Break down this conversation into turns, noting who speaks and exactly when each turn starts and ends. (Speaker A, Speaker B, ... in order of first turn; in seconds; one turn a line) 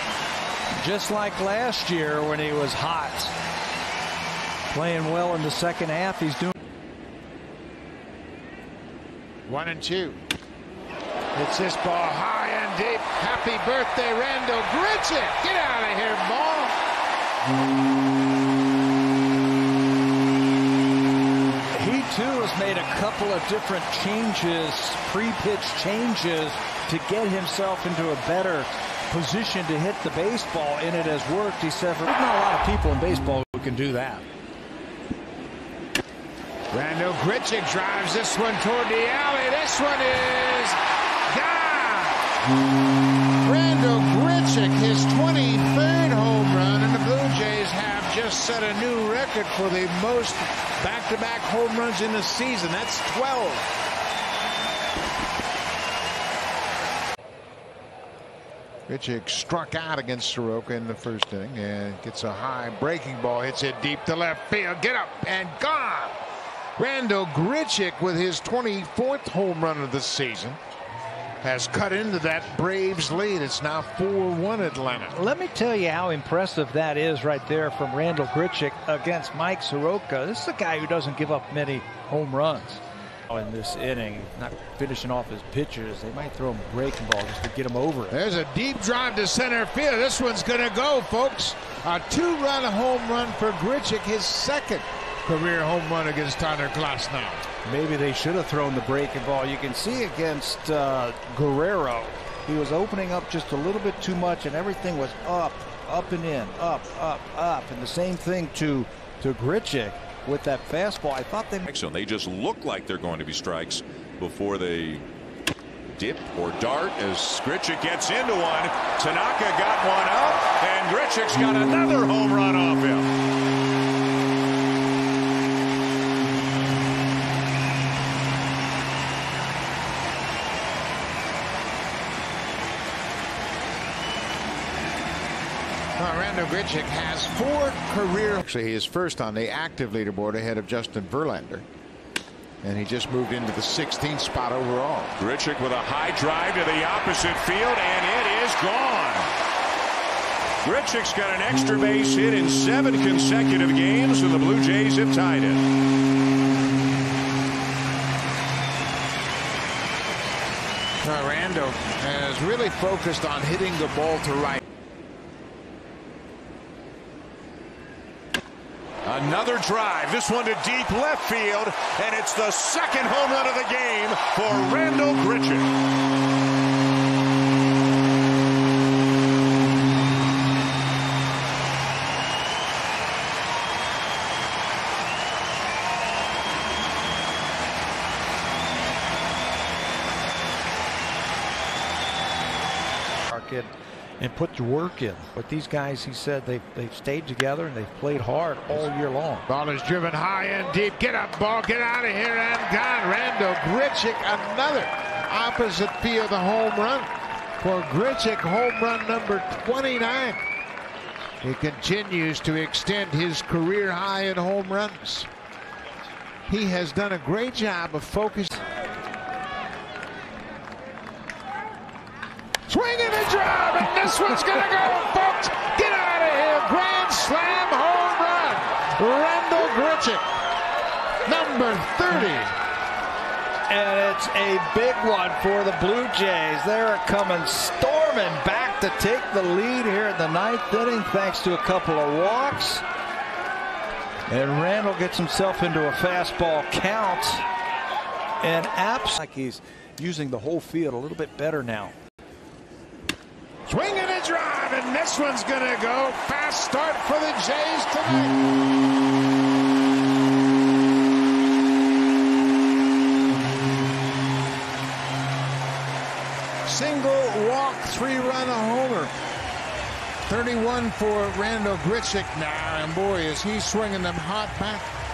Speaker A: 0.7-3.3
Speaker A: 4.7-6.5
Speaker B: 9.5-10.2
Speaker B: 11.3-16.8
Speaker A: 21.7-34.2
Speaker B: 36.7-40.8
Speaker B: 41.3-42.2
Speaker B: 43.4-53.7
Speaker B: 58.9-66.2
Speaker B: 66.8-70.6
Speaker B: 71.4-75.2
Speaker A: 75.1-88.2
Speaker B: 88.1-97.4
Speaker A: 97.6-111.7
Speaker C: 111.7-115.0
Speaker C: 115.9-123.1
Speaker B: 136.0-141.7
Speaker B: 142.6-145.2
Speaker C: 145.2-149.3
Speaker C: 150.6-155.6
Speaker B: 161.0-164.6
Speaker C: 169.0-175.7
Speaker A: 193.3-199.5
Speaker B: 199.5-210.4
Speaker B: 211.4-215.3
Speaker B: 216.5-218.6
Speaker B: 222.7-230.2
Speaker B: 231.3-232.5
Speaker A: 233.7-242.8
Speaker A: 244.3-247.4
Speaker A: 248.4-251.9
Speaker B: 253.7-258.4
Speaker B: 266.6-269.1
Speaker B: 270.2-274.9